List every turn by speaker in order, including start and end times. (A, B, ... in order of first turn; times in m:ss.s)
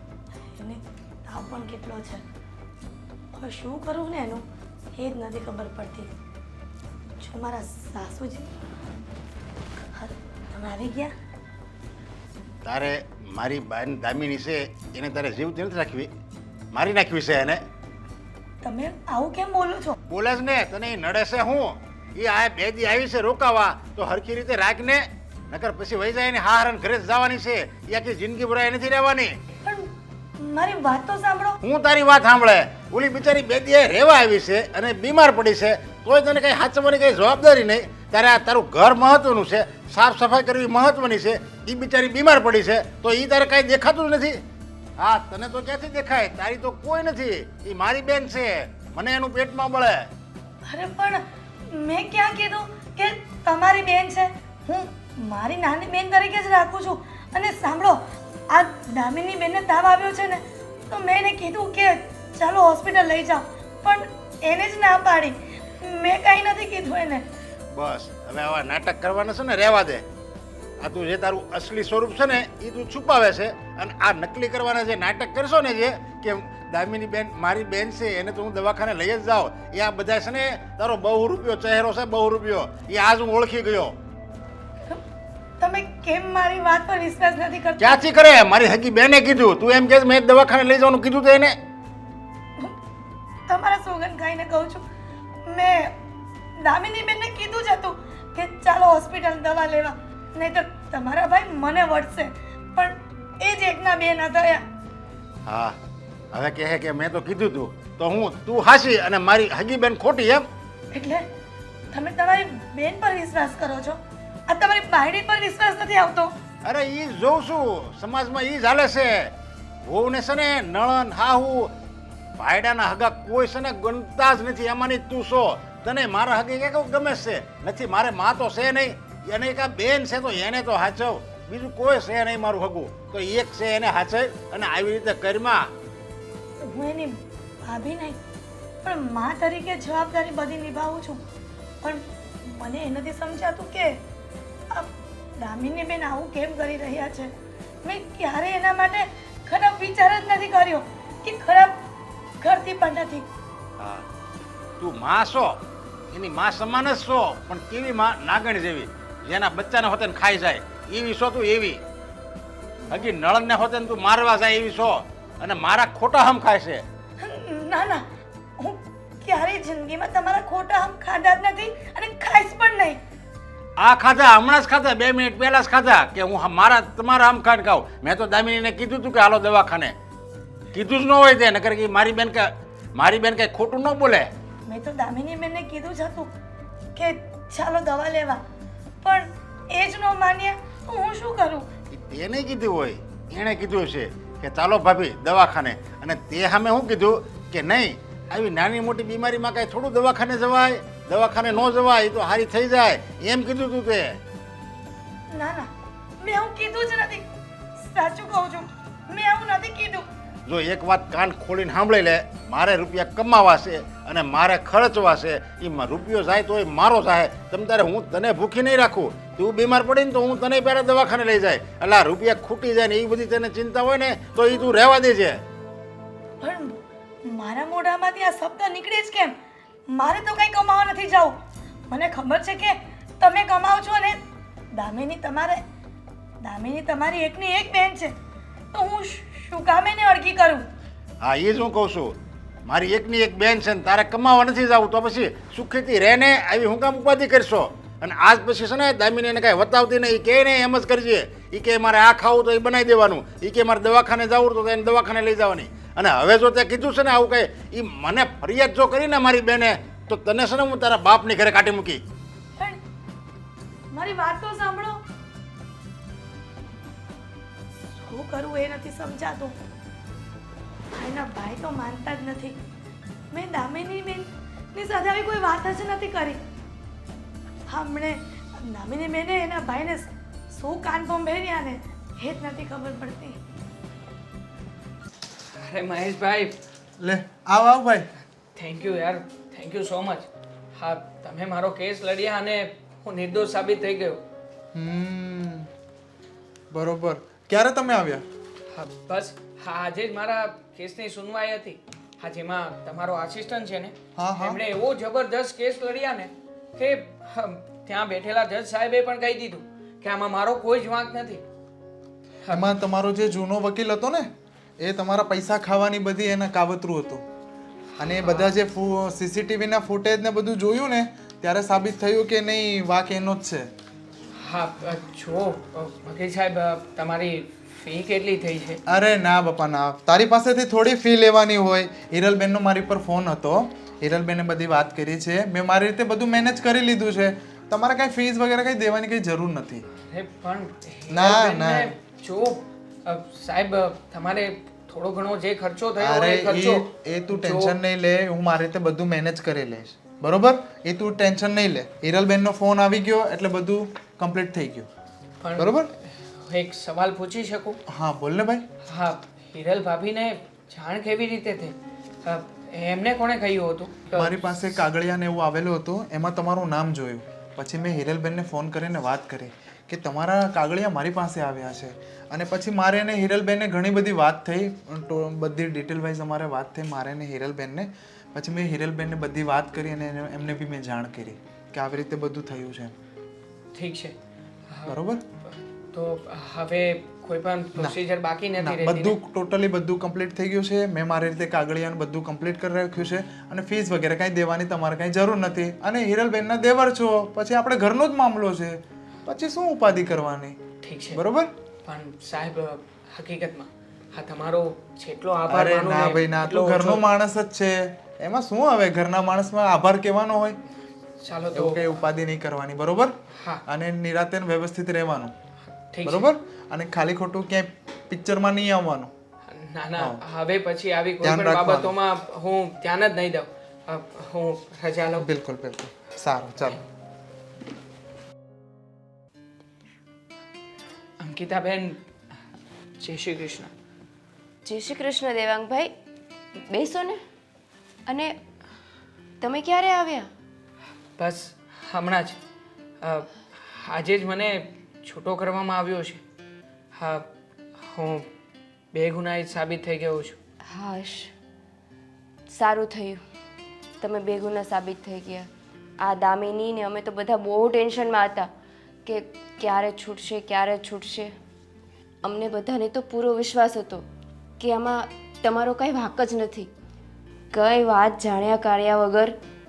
0:00.4-0:02.3 A
0:03.4-0:04.4 A
0:05.0-0:06.1 A
0:07.2-0:08.5 A
0:10.0-0:11.1 A
0:12.6-0:16.1 B
0:16.7-0:17.6 B
0:18.6-0:20.0 A
0:20.1-0:29.4 B
0:30.4-0:31.6 A
0:31.6-0:44.4 B
0:45.0-0:50.1 B
0:50.7-0:58.0 A
0:58.5-1:07.2 A
1:07.7-1:10.0 B
1:10.8-1:24.0 B
1:25.6-1:28.0 A
1:27.8-1:31.6 B
1:33.5-1:34.8 A
1:35.5-1:36.0 A
1:36.6-1:44.6 A
1:45.5-1:45.8 B
1:46.3-1:50.5 B
1:50.9-1:51.2 A
1:51.9-1:56.3 A
1:56.6-1:59.3 B
1:59.9-2:01.7 B
2:02.4-2:15.7 B
2:16.6-2:18.2 A
2:18.8-2:21.2 A
2:21.8-2:24.0 A
2:24.7-2:27.3 A
2:27.8-2:31.8 A
2:32.4-2:33.3 A
2:33.8-2:34.0 B
2:34.8-2:35.6 B
2:36.1-2:41.8 B
2:42.9-2:46.8 B
2:47.2-2:48.0 A
2:48.6-2:53.0 A
2:53.8-3:00.0 B
3:00.7-3:04.3 B
3:04.7-3:06.3 A
3:07.0-3:08.4 A
3:09.0-3:11.7 A
3:11.9-3:24.2 B
3:25.3-3:27.2 A
3:27.8-3:30.0 A
3:30.5-3:45.4 B
3:46.4-3:49.4 A
3:49.9-3:51.4 A
3:51.9-3:54.2 A
3:54.8-3:55.6 A
3:56.4-3:58.1 A
3:58.7-4:00.7 A
4:01.2-4:22.0 B
4:23.9-4:25.0 A
4:28.0-4:29.6 A
4:30.9-4:32.6 A
4:33.3-4:36.4 A
4:37.7-4:43.4 A
4:45.5-4:46.6 C
4:47.0-4:48.1 D
4:48.6-4:54.2 C
4:54.7-4:55.7 D
4:56.7-4:58.2 D
4:58.7-5:11.4 C
5:04.2-5:04.6 D
5:12.4-5:12.7 C
5:12.5-5:17.2 D
5:18.0-5:23.7 D
5:18.0-5:18.6 C
5:24.4-5:28.8 C
5:28.9-5:39.8 D
5:40.0-5:47.8 C
5:41.1-5:41.9 D
5:46.0-5:54.9 D
5:55.4-5:57.8 C
5:55.6-5:55.9 D
5:57.9-5:58.6 D
5:58.9-6:04.4 C
6:04.1-6:22.9 D
6:23.7-6:24.2 C
6:24.7-6:29.2 C
6:24.9-6:25.2 D
6:28.6-6:40.6 D
6:40.8-6:41.2 C
6:41.1-6:41.5 D
6:41.8-6:47.0 C
6:45.5-6:50.6 D
6:51.2-6:51.8 C
6:51.5-6:53.1 D
6:53.4-6:53.6 C
6:53.7-6:55.3 D
6:55.9-6:56.3 C
6:56.0-6:59.1 D
6:59.5-7:05.3 C
7:01.2-7:02.0 D
7:05.2-7:06.8 D
7:11.2-7:12.0 C
7:13.0-7:13.7 C
7:14.7-7:15.9 E
7:16.7-7:17.2 E
7:18.1-7:18.3 E
7:19.4-7:20.3 E
7:21.2-7:22.4 C
7:23.0-7:26.2 C
7:27.0-7:28.3 C
7:28.9-7:30.4 C
7:30.7-7:31.3 E
7:32.5-7:33.2 E
7:34.0-7:38.5 E
7:39.1-7:41.4 E
7:42.2-7:44.0 E
7:44.6-7:46.7 E
7:47.5-7:49.4 E